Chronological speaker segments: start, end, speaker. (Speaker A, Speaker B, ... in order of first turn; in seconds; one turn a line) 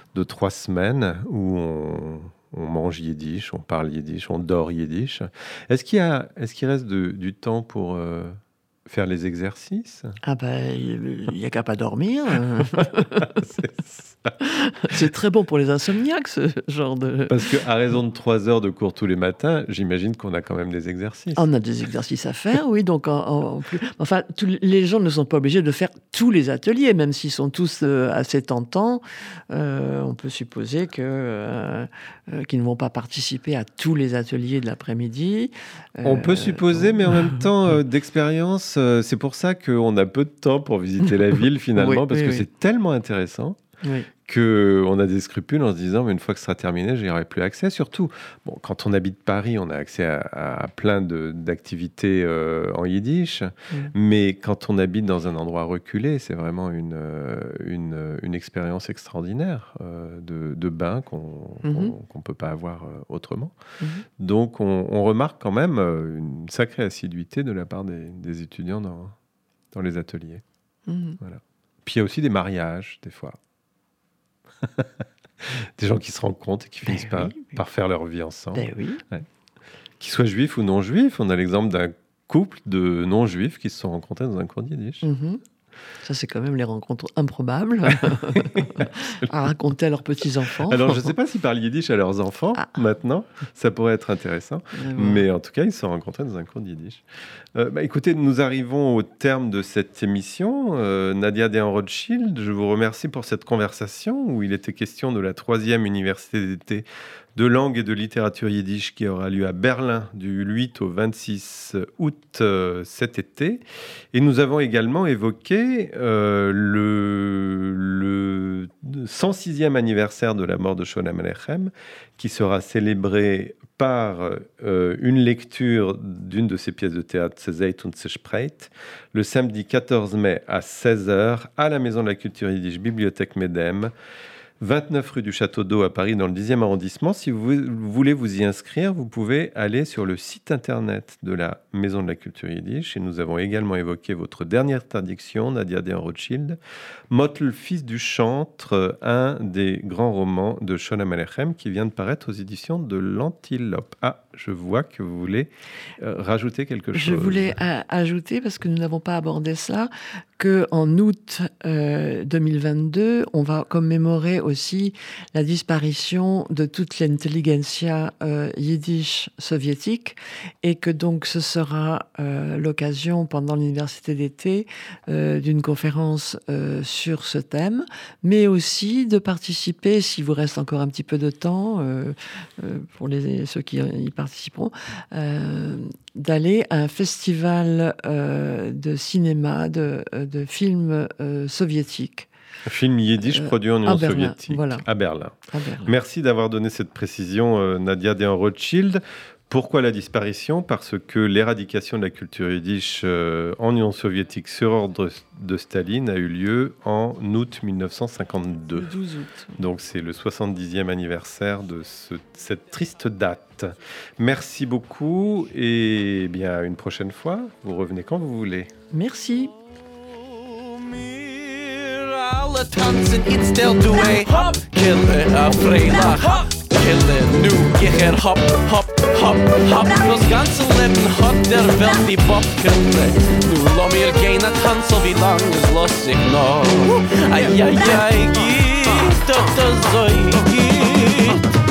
Speaker A: 0.1-10.2
Speaker B: 10.2-13.4
Speaker A: 12.8-14.3
Speaker B: 14.4-17.4
Speaker A: 17.3-21.4
Speaker B: 21.4-37.4
Speaker A: 36.0-43.6
Speaker B: 41.8-42.4
Speaker B: 43.8-44.1
Speaker A: 44.2-63.5
Speaker B: 61.6-61.9
Speaker A: 64.2-69.2
Speaker A: 69.7-70.4
Speaker B: 70.9-71.2
Speaker A: 71.2-73.4
Speaker A: 74.6-74.9
Speaker A: 75.4-79.2
Speaker B: 76.8-77.5
Speaker B: 78.5-79.0
Speaker A: 80.0-85.0
Speaker B: 85.0-85.4
Speaker B: 86.0-91.1
Speaker A: 88.3-88.8
Speaker A: 90.6-97.0
Speaker B: 94.7-95.3
Speaker A: 97.5-133.9
Speaker A: 134.6-146.6
Speaker A: 147.1-157.6
Speaker B: 156.9-192.3
Speaker A: 192.7-208.9
Speaker B: 193.3-194.8
Speaker B: 195.5-195.9
Speaker B: 208.7-209.6
Speaker A: 209.6-218.7
Speaker B: 218.9-219.5
Speaker C: 220.2-241.5